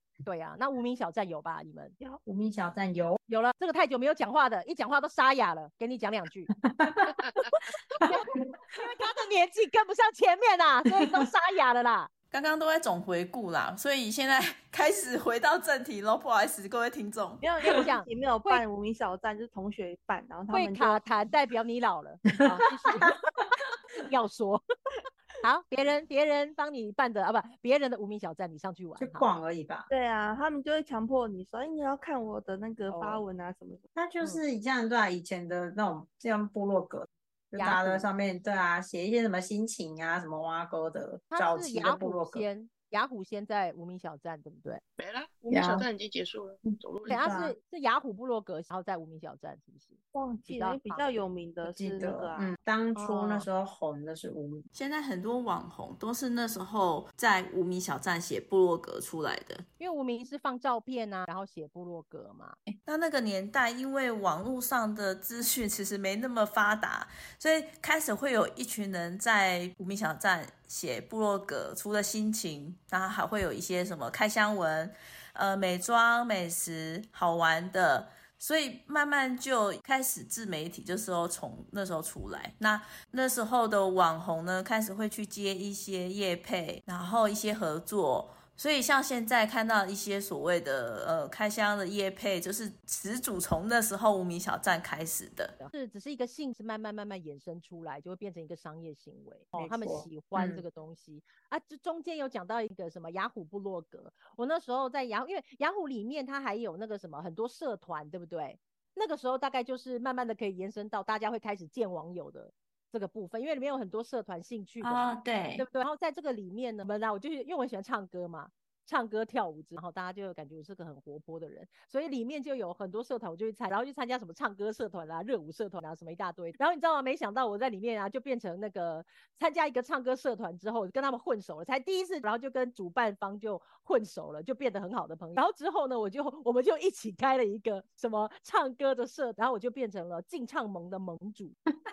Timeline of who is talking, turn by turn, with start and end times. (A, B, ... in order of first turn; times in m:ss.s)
0:00.2-0:02.0 A
0:02.2-0:03.2 B
0:03.3-0:06.5 A
0:06.6-0:07.2 B
0:07.6-0:12.1 A
0:12.3-0:17.4 C
0:17.4-0:21.0 D
0:17.6-0:18.6 A
0:20.5-0:23.2 A
0:24.0-0:24.6 A
0:25.4-0:29.3 A
0:29.0-0:29.9 B
0:29.9-0:33.8 D
0:32.9-0:33.2 A
0:33.9-0:42.4 B
0:37.6-0:38.1 A
0:41.3-0:44.8 A
0:45.0-0:47.3 E
0:45.5-0:45.9 B
0:47.0-0:51.2 A
0:47.1-0:47.5 B
0:50.1-0:52.5 D
0:51.6-0:54.6 B
0:53.0-0:53.5 A
0:54.7-0:59.6 C
0:59.8-1:02.6 A
1:02.8-1:35.5 C
1:35.6-2:21.6 A
1:39.5-1:40.6 B
1:54.8-1:55.6 C